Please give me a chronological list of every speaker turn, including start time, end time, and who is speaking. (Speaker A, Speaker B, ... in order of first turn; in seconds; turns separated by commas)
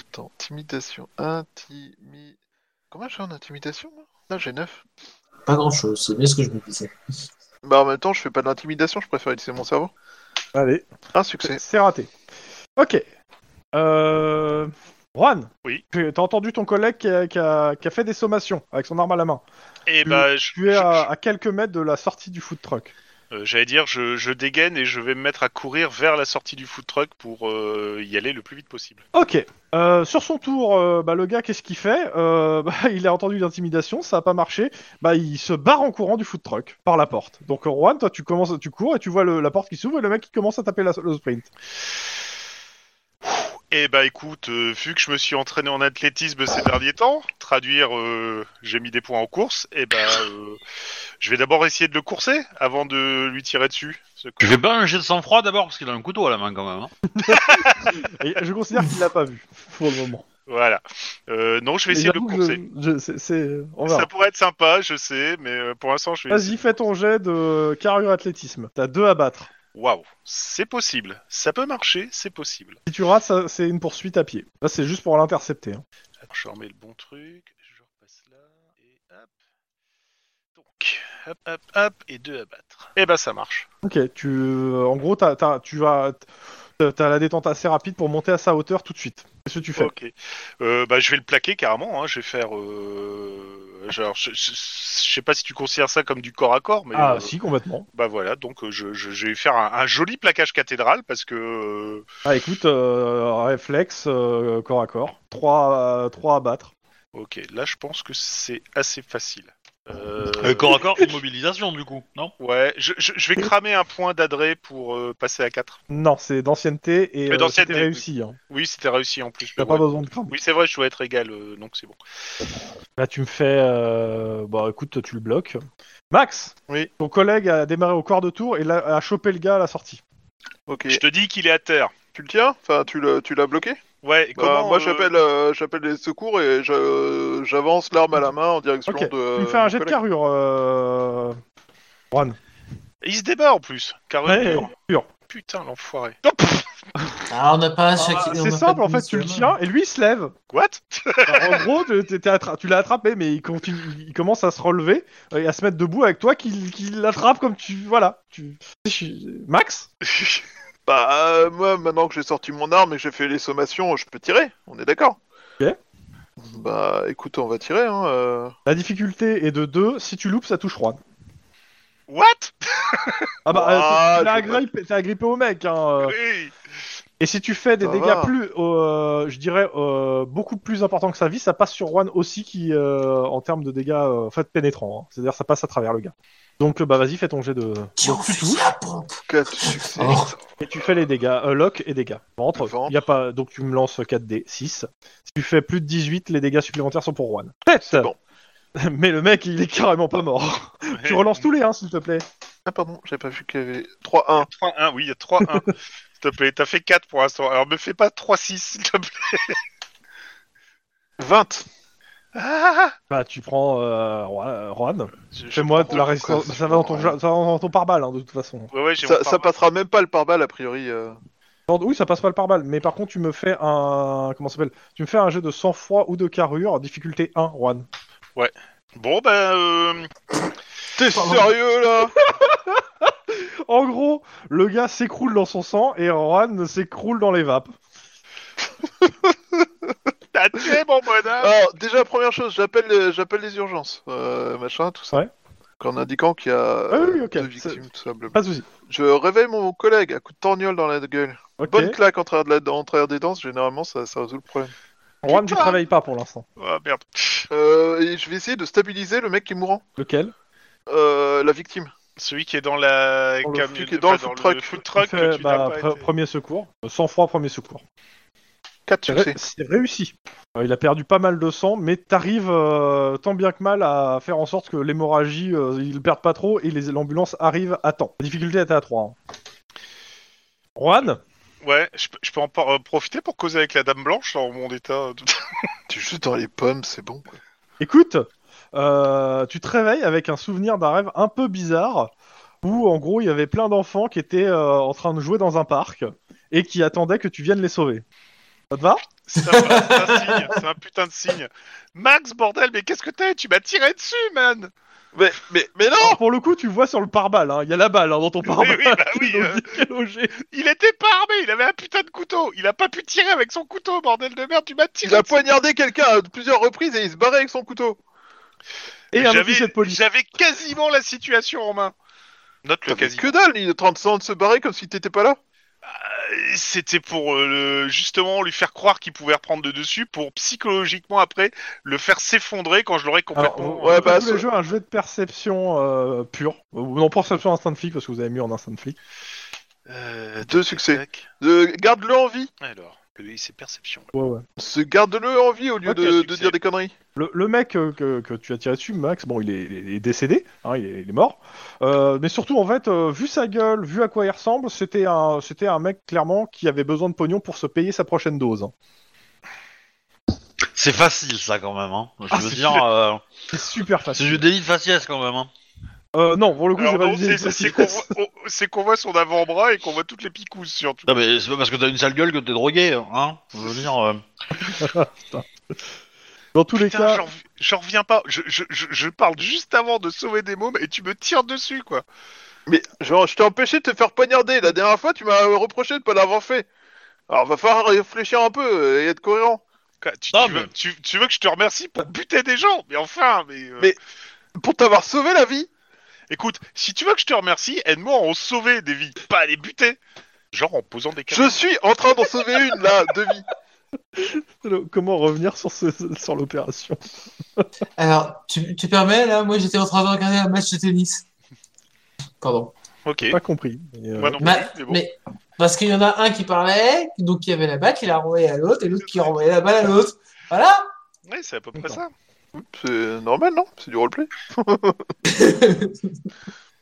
Speaker A: 0.1-2.3, Speaker A: 2.9-4.8, Speaker B: 5.5-6.9, Speaker A: 7.6-9.9, Speaker C: 10.5-10.9, Speaker A: 11.1-11.6, Speaker C: 11.4-12.1, Speaker C: 12.8-13.0, Speaker C: 13.7-19.4, Speaker D: 19.9-21.1, Speaker C: 20.1-22.9, Speaker D: 23.3-29.0, Speaker C: 29.1-41.5, Speaker D: 43.7-50.6, Speaker D: 51.2-54.6, Speaker E: 54.4-56.9, Speaker C: 57.1-60.2, Speaker D: 57.3-58.0, Speaker D: 60.5-62.6, Speaker C: 61.9-64.1, Speaker D: 63.9-66.7, Speaker C: 66.3-69.5, Speaker D: 69.7-72.8, Speaker C: 72.9-75.8, Speaker D: 76.3-79.3, Speaker D: 80.7-83.7, Speaker C: 83.8-86.2, Speaker C: 86.8-89.9, Speaker D: 89.8-97.3, Speaker C: 96.9-97.9, Speaker D: 97.9-102.0, Speaker C: 102.2-106.7, Speaker D: 107.1-110.8, Speaker E: 110.4-112.3, Speaker D: 112.4-115.8, Speaker C: 115.9-118.4, Speaker D: 117.3-122.0, Speaker C: 119.6-120.3, Speaker C: 123.0-130.0, Speaker A: 130.7-131.0, Speaker D: 130.9-131.9, Speaker A: 132.1-133.8, Speaker D: 134.0-135.1, Speaker A: 134.3-140.0, Speaker C: 138.9-141.4, Speaker C: 142.1-142.4, Speaker D: 143.0-144.7, Speaker C: 144.2-145.1, Speaker D: 145.3-146.6, Speaker B: 147.3-149.5, Speaker C: 147.9-150.3, Speaker D: 150.5-151.6, Speaker C: 151.2-159.9, Speaker D: 160.1-160.4, Speaker A: 160.9-165.2, Speaker A: 166.4-168.5, Speaker C: 168.7-171.0, Speaker D: 172.1-173.2, Speaker C: 173.4-176.2, Speaker A: 173.5-174.6, Speaker D: 176.0-176.5, Speaker C: 177.2-188.7, Speaker A: 177.8-178.3, Speaker B: 188.0-190.3, Speaker A: 189.3-190.4, Speaker C: 190.6-198.1, Speaker A: 192.6-193.0, Speaker A: 197.8-198.2, Speaker C: 198.8-202.2, Speaker D: 200.9-201.4, Speaker A: 202.7-204.5, Speaker D: 204.4-209.6, Speaker A: 211.2-211.7, Speaker D: 212.3-212.9, Speaker C: 213.1-218.7, Speaker D: 215.3-216.1, Speaker A: 215.8-217.1, Speaker D: 218.7-219.5, Speaker A: 219.0-221.2, Speaker C: 221.7-227.9, Speaker D: 228.3-230.1, Speaker A: 230.9-232.1, Speaker B: 231.1-231.5, Speaker C: 232.1-237.7, Speaker D: 240.3-241.5, Speaker A: 241.4-245.2, Speaker A: 245.8-254.7, Speaker C: 246.9-247.8, Speaker C: 248.3-248.6, Speaker C: 251.6-252.0, Speaker C: 255.2-256.4, Speaker D: 255.3-255.8, Speaker D: 256.6-257.5, Speaker A: 257.5-259.8, Speaker C: 260.0-260.3, Speaker A: 260.9-261.9, Speaker D: 262.2-266.0, Speaker A: 263.6-264.8, Speaker C: 265.0-267.8, Speaker A: 268.9-269.4, Speaker C: 269.1-279.1, Speaker C: 280.8-281.2, Speaker D: 281.6-285.5, Speaker A: 285.9-287.4, Speaker C: 287.8-292.1, Speaker C: 292.6-298.0, Speaker C: 298.7-299.0, Speaker D: 299.3-304.7, Speaker B: 299.4-300.6, Speaker A: 305.1-306.2, Speaker C: 306.0-310.4, Speaker D: 308.4-309.7, Speaker D: 310.4-315.4, Speaker A: 315.0-318.0, Speaker C: 319.1-320.0, Speaker D: 319.1-321.9, Speaker D: 322.6-323.3, Speaker A: 322.9-325.4, Speaker D: 325.8-334.2, Speaker C: 333.3-339.0, Speaker A: 333.8-334.4, Speaker D: 339.9-341.2, Speaker A: 340.4-342.5, Speaker D: 342.6-344.1, Speaker C: 344.1-344.4, Speaker A: 344.6-346.9, Speaker D: 345.8-346.6, Speaker C: 347.1-358.7, Speaker E: 360.7-363.2, Speaker C: 362.3-362.8, Speaker C: 363.5-364.4, Speaker E: 364.1-365.5, Speaker C: 366.1-368.1, Speaker D: 366.8-371.1, Speaker E: 371.1-374.2, Speaker C: 374.6-375.4, Speaker C: 376.5-377.2, Speaker D: 376.7-382.0, Speaker A: 382.7-386.7, Speaker A: 387.3-389.6, Speaker D: 390.0-393.9, Speaker E: 390.3-390.7, Speaker A: 394.6-395.7, Speaker D: 396.3-400.0, Speaker D: 400.5-401.6, Speaker A: 401.3-403.4, Speaker C: 404.1-407.0, Speaker B: 408.0-411.2, Speaker B: 412.4-412.7, Speaker D: 413.0-413.4, Speaker C: 413.3-414.5, Speaker D: 414.2-415.0, Speaker B: 414.4-420.8, Speaker D: 421.3-422.1, Speaker A: 422.5-425.1, Speaker B: 425.3-426.2